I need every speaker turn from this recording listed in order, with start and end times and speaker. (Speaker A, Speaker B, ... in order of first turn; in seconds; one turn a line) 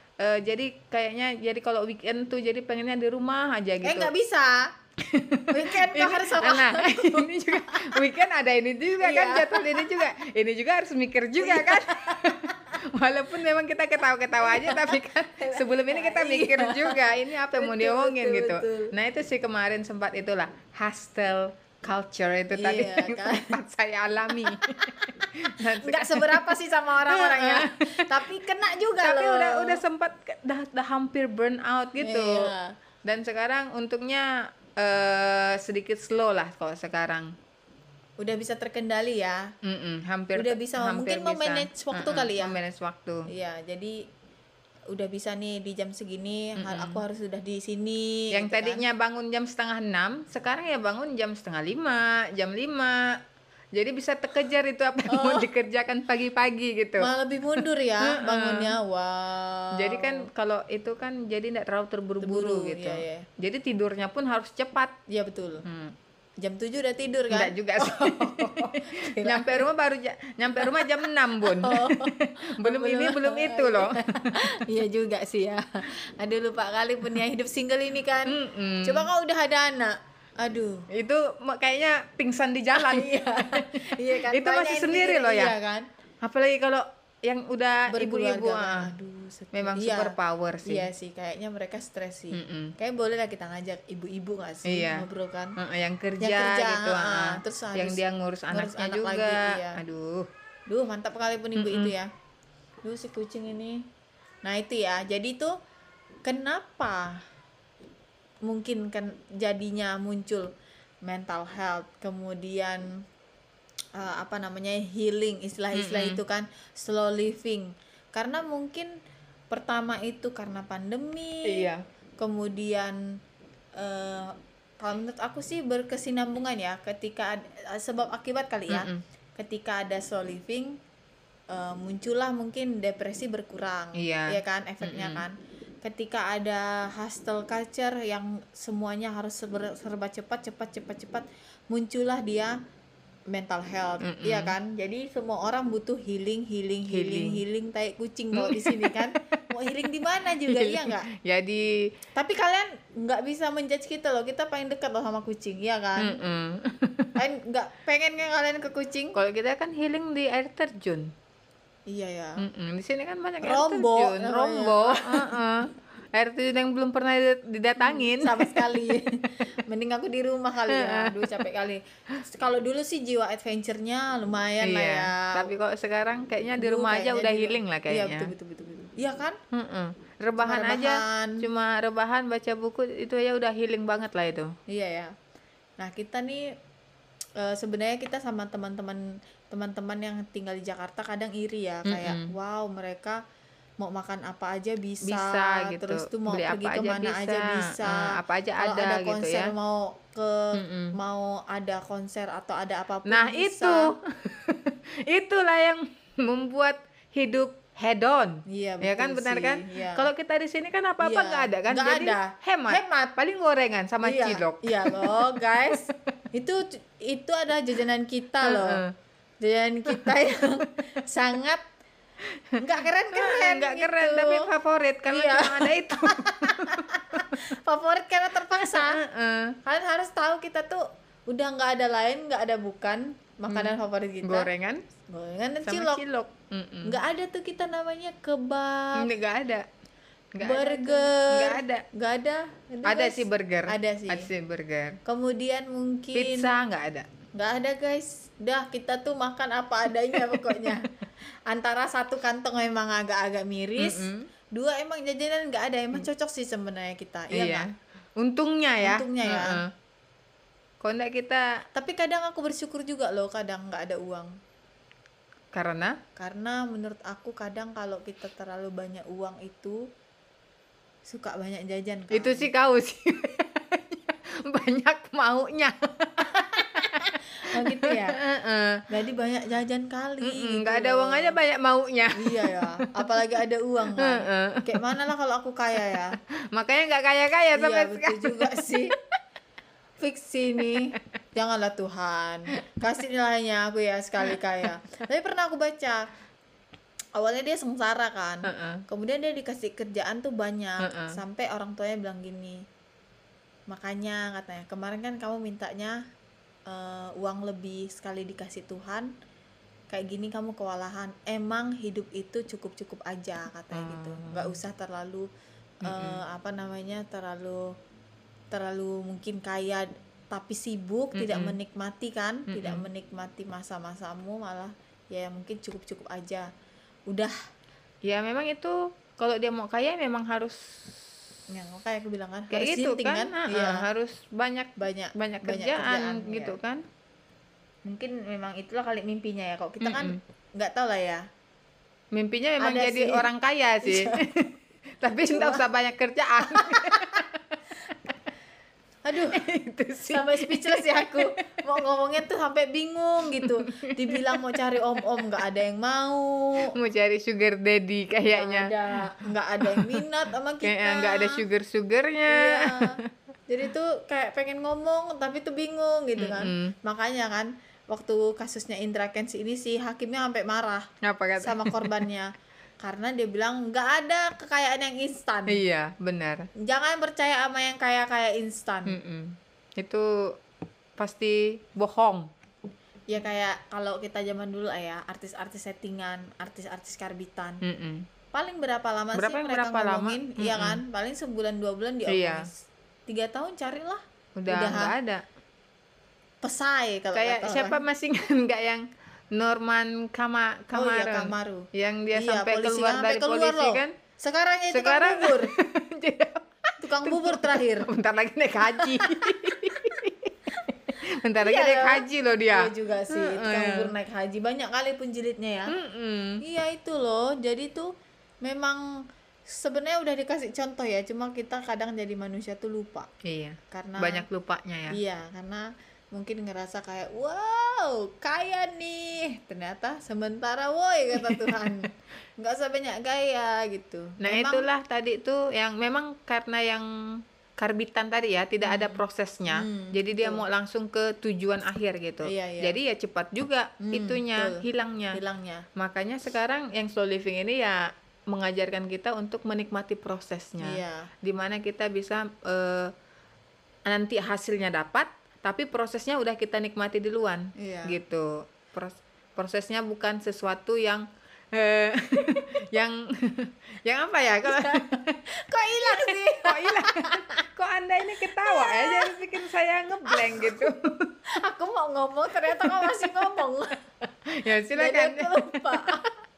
Speaker A: 0.2-4.1
Speaker B: 3.8-4.7
Speaker A: 5.0-28.2
Speaker B: 5.5-8.1
Speaker B: 9.0-10.1
Speaker B: 11.4-12.8
Speaker B: 14.4-18.9
Speaker B: 22.6-23.6
Speaker B: 24.4-29.8
Speaker A: 29.0-32.5
Speaker B: 32.0-32.8
Speaker A: 33.0-37.3
Speaker B: 38.2-39.5
Speaker A: 39.6-43.2
Speaker B: 40.4-42.6
Speaker B: 43.3-44.0
Speaker B: 44.9-48.8
Speaker A: 46.6-47.0
Speaker A: 48.3-53.2
Speaker A: 53.7-58.8
Speaker B: 55.1-55.5
Speaker B: 57.0-60.3
Speaker A: 59.8-65.0
Speaker B: 62.2-63.3
Speaker B: 65.1-65.7
Speaker A: 65.7-66.0
Speaker B: 66.4-69.7
Speaker A: 67.3-74.5
Speaker B: 70.6-80.8
Speaker A: 78.2-79.1
Speaker A: 80.9-85.5
Speaker B: 82.8-85.9
Speaker A: 86.2-88.9
Speaker B: 87.9-95.6
Speaker A: 89.5-90.9
Speaker A: 92.3-92.8
Speaker A: 94.7-95.0
Speaker A: 95.6-100.3
Speaker B: 96.2-99.8
Speaker B: 100.7-102.1
Speaker A: 101.6-101.9
Speaker B: 102.8-103.9
Speaker B: 104.4-105.5
Speaker B: 106.2-107.2
Speaker B: 108.5-110.5
Speaker B: 111.0-113.0
Speaker B: 114.0-118.9
Speaker A: 115.7-116.2
Speaker B: 119.5-123.0
Speaker A: 121.5-121.8
Speaker B: 123.8-130.8
Speaker A: 128.7-129.0
Speaker B: 131.5-142.6
Speaker A: 134.0-135.2
Speaker B: 143.3-151.1
Speaker A: 144.0-144.6
Speaker A: 146.9-147.4
Speaker A: 148.3-149.1
Speaker A: 150.3-151.9
Speaker B: 152.2-156.2
Speaker A: 156.0-157.1
Speaker B: 157.2-159.2
Speaker A: 159.2-161.1
Speaker B: 161.9-162.4
Speaker A: 162.4-168.7
Speaker B: 163.4-165.4
Speaker B: 167.8-175.5
Speaker A: 170.7-171.4
Speaker A: 174.6-178.3
Speaker B: 176.6-179.4
Speaker A: 179.5-184.6
Speaker B: 180.4-181.4
Speaker B: 184.7-185.1
Speaker B: 185.8-186.5
Speaker B: 187.4-193.2
Speaker A: 191.9-192.3
Speaker B: 193.8-203.9
Speaker A: 195.0-199.5
Speaker A: 200.5-200.9
Speaker A: 203.1-216.0
Speaker B: 208.5-210.1
Speaker B: 211.0-213.1
Speaker B: 214.0-218.8
Speaker A: 218.4-218.9
Speaker B: 219.4-221.6
Speaker A: 219.9-220.1
Speaker A: 222.2-222.6
Speaker B: 222.6-224.5
Speaker A: 223.1-227.4
Speaker B: 225.1-229.0
Speaker A: 228.6-229.6
Speaker B: 229.6-234.5
Speaker A: 233.5-234.8
Speaker B: 235.1-236.0
Speaker A: 235.6-237.0
Speaker B: 236.8-239.1
Speaker A: 239.0-239.7
Speaker A: 240.4-241.8
Speaker B: 240.4-244.3
Speaker A: 242.8-245.0
Speaker B: 245.1-246.5
Speaker A: 246.1-247.1
Speaker B: 247.3-250.9
Speaker A: 250.1-250.9
Speaker B: 251.5-257.7
Speaker A: 253.8-254.3
Speaker A: 257.3-259.7
Speaker B: 258.8-259.6
Speaker A: 260.8-261.5
Speaker B: 261.7-264.4
Speaker A: 265.5-266.0
Speaker B: 266.2-269.9
Speaker B: 271.1-272.5
Speaker A: 272.1-278.9
Speaker B: 276.4-278.2
Speaker B: 278.9-281.4
Speaker A: 280.2-283.2
Speaker B: 282.1-286.2
Speaker A: 284.0-284.9
Speaker A: 285.9-289.2
Speaker B: 287.5-289.0
Speaker B: 290.0-296.0
Speaker A: 290.6-291.0
Speaker A: 294.2-294.7
Speaker B: 297.2-302.6
Speaker A: 298.4-298.8
Speaker A: 300.8-301.2
Speaker B: 303.7-306.0
Speaker B: 306.7-309.1
Speaker B: 309.9-315.3
Speaker A: 313.7-314.6
Speaker A: 315.8-316.2
Speaker B: 315.8-317.7
Speaker B: 318.5-326.5
Speaker A: 321.1-321.5
Speaker A: 322.5-322.9
Speaker B: 327.1-327.4
Speaker A: 328.0-331.1
Speaker B: 331.5-333.9
Speaker A: 332.5-336.8
Speaker B: 334.8-336.6
Speaker B: 337.9-341.3
Speaker A: 339.8-340.2
Speaker A: 342.1-344.4
Speaker B: 342.6-343.3
Speaker B: 343.8-344.2
Speaker A: 345.0-348.2
Speaker B: 345.1-345.7
Speaker B: 346.4-347.2
Speaker B: 349.0-349.4
Speaker A: 349.3-351.8
Speaker B: 350.1-356.7
Speaker A: 353.3-354.6
Speaker A: 356.7-358.7
Speaker B: 358.3-361.4
Speaker A: 359.6-360.1
Speaker A: 360.6-363.1
Speaker B: 362.3-363.0
Speaker B: 363.5-370.9
Speaker A: 366.2-366.8
Speaker A: 371.0-372.1
Speaker B: 371.4-375.6
Speaker A: 375.5-376.4
Speaker B: 376.6-379.0
Speaker A: 378.9-380.1
Speaker A: 381.0-382.3
Speaker B: 383.1-387.6
Speaker A: 387.6-388.1
Speaker B: 388.3-394.9
Speaker A: 389.1-390.8
Speaker A: 392.1-392.4
Speaker A: 394.4-395.2
Speaker B: 396.4-397.8
Speaker A: 397.1-403.9
Speaker B: 400.7-405.5
Speaker A: 404.7-413.9
Speaker B: 406.8-407.9
Speaker B: 408.6-410.0
Speaker B: 410.5-415.8
Speaker A: 415.7-416.4
Speaker B: 416.4-417.9
Speaker B: 418.4-418.9
Speaker B: 419.5-423.1
Speaker A: 423.2-425.0
Speaker B: 423.7-424.2
Speaker B: 424.9-434.7
Speaker A: 431.1-431.9
Speaker A: 434.2-445.2
Speaker B: 438.6-440.4
Speaker B: 442.2-442.8
Speaker B: 443.8-445.7
Speaker A: 445.8-452.9
Speaker B: 450.6-451.1
Speaker A: 453.9-465.2
Speaker B: 457.6-458.0
Speaker B: 464.4-467.5
Speaker A: 465.8-471.2
Speaker B: 468.2-469.3
Speaker B: 470.1-470.6
Speaker B: 471.3-473.8
Speaker A: 472.4-473.2
Speaker A: 474.3-476.1
Speaker B: 474.7-476.1